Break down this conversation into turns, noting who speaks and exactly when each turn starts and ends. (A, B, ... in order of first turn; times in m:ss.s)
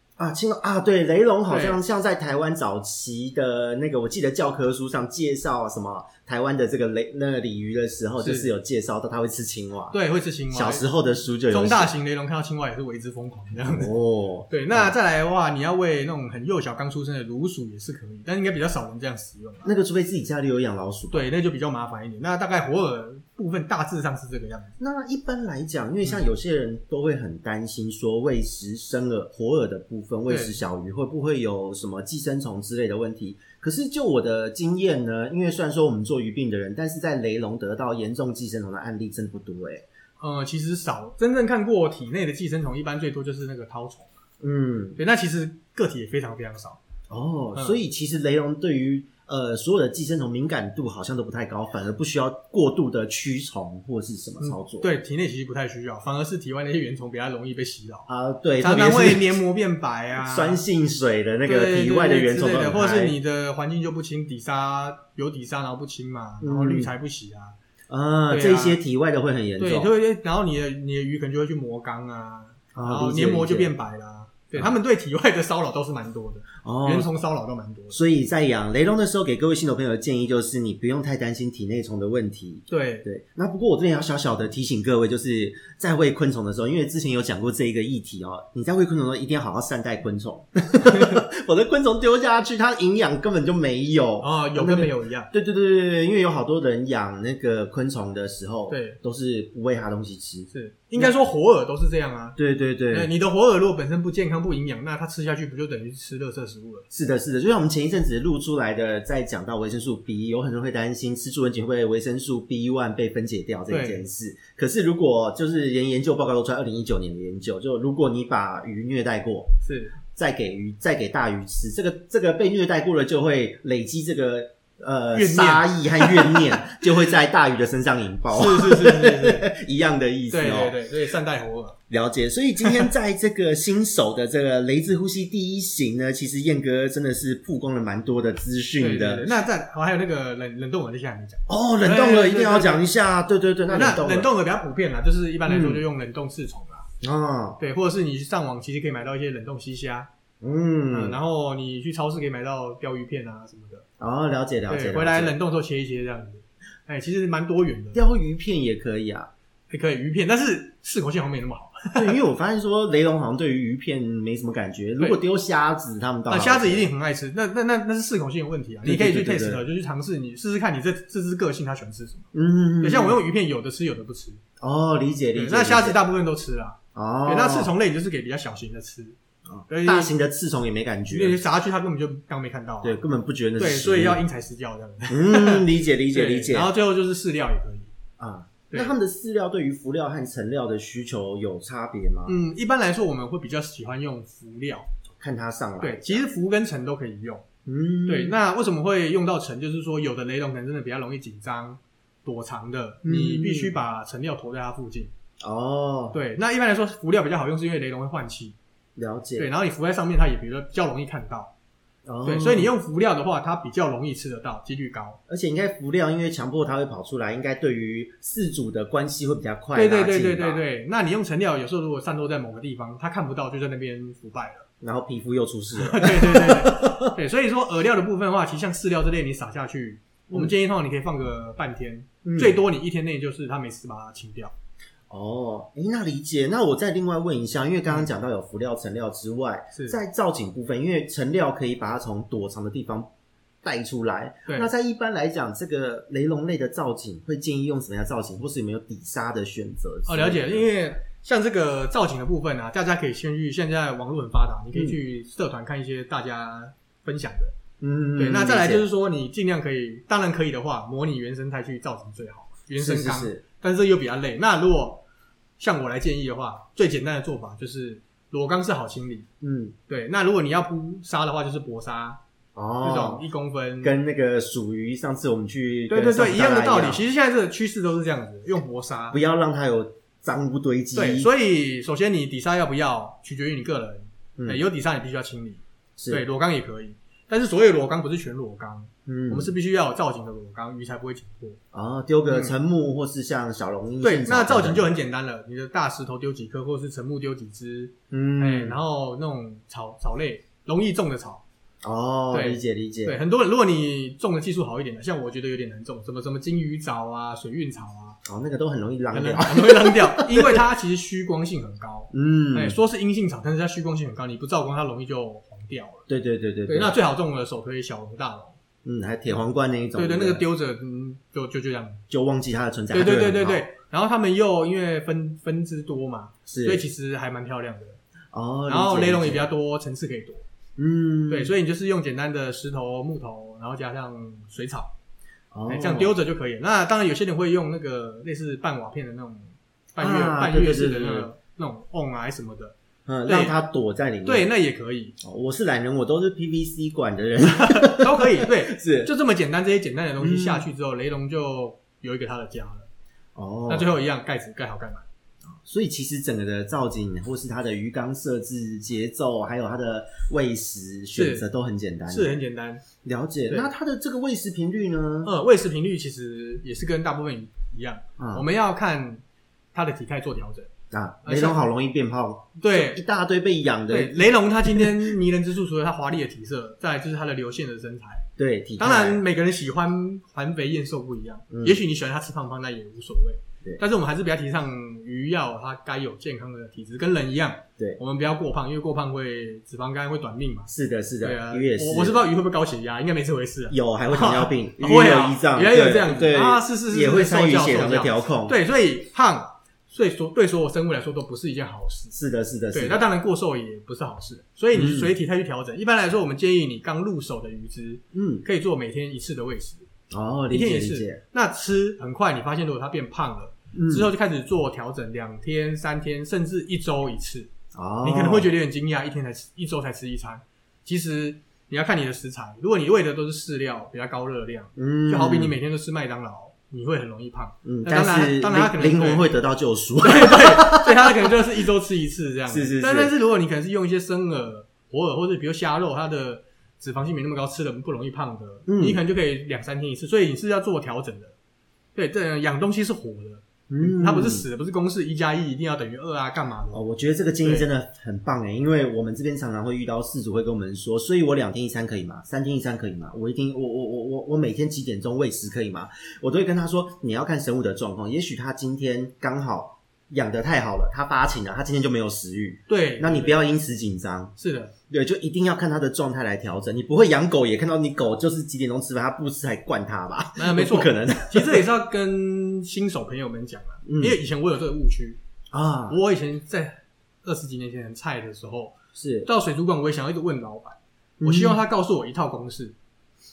0:00.2-0:10.0 A
0:01.5-0:01.8 B
0:08.2-0:08.5 B
0:09.9-0:10.8 B
0:10.5-0:11.9 A
0:11.5-0:13.9 B
0:13.7-0:14.9 A
0:14.5-0:19.7 B
0:19.6-0:21.3 A
0:21.1-0:24.7 B
0:24.8-0:39.8 A
0:30.3-0:30.6 B
0:40.2-0:44.2 B
0:44.4-0:45.0 A
0:45.0-0:46.8 B
0:47.1-0:54.9 A
0:54.4-0:58.1 B
0:58.1-0:59.4 A
0:58.6-1:00.6 B
1:00.2-1:03.2 A
1:01.4-1:07.6 B
1:06.4-1:06.9 A
1:07.9-1:09.9 A
1:08.3-1:08.8 B
1:09.6-1:18.0 B
1:12.7-1:13.7 A
1:16.6-1:17.1 A
1:17.9-1:41.1 A
1:22.7-1:23.1 B
1:30.8-1:31.2 B
1:34.2-1:35.3 B
1:38.7-1:39.0 B
1:40.5-1:42.4 B
1:42.4-1:43.1 A
1:42.9-1:46.9 B
1:46.9-2:10.8 A
1:53.7-1:54.0 B
1:59.6-2:00.0 B
2:05.1-2:07.1 B
2:08.3-2:09.5 B
2:10.3-2:11.8 B
2:11.9-2:19.3 A
2:12.6-2:12.9 B
2:18.8-2:22.9 B
2:21.5-2:24.3 A
2:23.7-2:26.9 B
2:25.5-2:25.8 A
2:27.0-2:27.6 A
2:27.6-2:30.1 B
2:30.4-2:31.2 A
2:30.9-2:33.8 B
2:34.0-2:35.3 A
2:34.7-2:38.0 B
2:37.9-2:39.3 A
2:39.7-2:42.2 B
2:42.0-2:46.9 A
2:46.3-2:52.3 B
2:48.8-2:49.6 A
2:52.3-2:53.2 A
2:52.8-2:54.4 B
2:54.6-2:56.0 A
2:55.4-2:59.2 B
2:56.9-2:57.7 A
2:59.5-3:01.4 A
2:59.7-3:00.1 B
3:01.1-3:03.0 B
3:02.8-3:04.2 A
3:03.6-3:07.9 B
3:05.1-3:06.7 A
3:08.2-3:12.4 A
3:08.7-3:09.0 B
3:12.3-3:14.9 B
3:15.2-3:16.3 A
3:15.8-3:17.5 B
3:17.7-3:18.4 A
3:18.1-3:25.1 B
3:23.0-3:23.8 A
3:25.4-3:26.2 A
3:26.1-3:28.6 B
3:29.0-3:29.5 A
3:29.4-3:31.5 B
3:32.1-3:32.7 A
3:32.2-3:35.2 B
3:35.3-3:40.6 A
3:39.8-3:44.7 B
3:44.8-3:47.2 A
3:45.8-3:54.5 B
3:52.2-3:52.6 A
3:55.1-4:03.1 A
4:03.6-4:10.7 A
4:10.1-4:17.5 B
4:17.8-4:18.9 A
4:18.2-4:25.0 B
4:22.8-4:23.4 A
4:25.6-4:29.3 B
4:29.4-4:29.8 A
4:29.9-4:32.2 B
4:32.6-4:33.2 A
4:32.8-4:34.0 B
4:33.8-4:37.0 A
4:35.9-4:39.2 B
4:39.1-4:41.3 A
4:41.0-4:51.6 B
4:46.0-4:46.2 A
4:49.1-4:49.5 A
4:51.7-4:54.9 A
4:52.3-4:52.6 B
4:54.0-5:01.4 B
4:58.1-4:58.8 A
5:01.8-5:03.2 A
5:02.3-5:08.2 B
5:08.2-5:10.6 A
5:09.1-5:16.1 B
5:12.1-5:12.8 A
5:16.1-5:17.0 A
5:16.7-5:18.6 B
5:18.8-5:20.4 A
5:20.0-5:22.0 B
5:22.1-5:23.6 A
5:22.9-5:28.0 B
5:26.5-5:26.8 A
5:28.3-5:29.5 A
5:28.7-5:30.4 B
5:30.8-5:31.5 A
5:31.3-5:34.9 B
5:35.5-5:36.2 A
5:35.7-5:42.8 B
5:40.0-5:41.3 A
5:43.1-5:44.5 A
5:43.3-5:43.6 B
5:44.2-5:45.2 B
5:45.2-5:49.1 A
5:47.4-5:52.9 B
5:50.2-5:50.7 A
5:53.4-5:54.0 A
5:53.7-5:55.0 B
5:55.6-6:02.3 A
6:01.2-6:01.4 B
6:02.1-6:02.8 B
6:03.0-6:05.3 A
6:05.2-6:09.2 B
6:08.2-6:08.5 A
6:09.7-6:10.7 B
6:10.9-6:15.0 A
6:11.2-6:11.6 B
6:12.6-6:13.0 B
6:13.9-6:18.3 B
6:18.4-6:19.2 A
6:18.8-6:30.7 B
6:21.5-6:21.8 A
6:30.7-6:32.2 A
6:31.2-6:42.2 B
6:33.7-6:38.6 A
6:42.1-6:43.0 A
6:42.7-6:49.9 B
6:44.7-6:45.1 A
6:48.1-6:48.4 A
6:50.1-6:51.2 A
6:50.5-6:57.5 B
6:53.7-6:54.1 A
6:57.7-6:58.5 A
6:58.0-7:09.3 B
7:04.8-7:05.6 A
7:07.6-7:11.4 A
7:10.0-7:21.4 B
7:12.5-7:13.1 A
7:18.7-7:19.0 A
7:22.0-7:26.8 B
7:23.7-7:24.5 A
7:26.7-7:44.3 A
7:42.7-7:43.4 B
7:44.4-7:44.8 B
7:44.9-7:51.7 A
7:50.4-7:55.2 B
7:53.8-7:54.2 A
7:55.5-7:56.0 A
7:55.9-8:02.8 B
7:59.0-7:59.3 A
8:01.2-8:01.6 A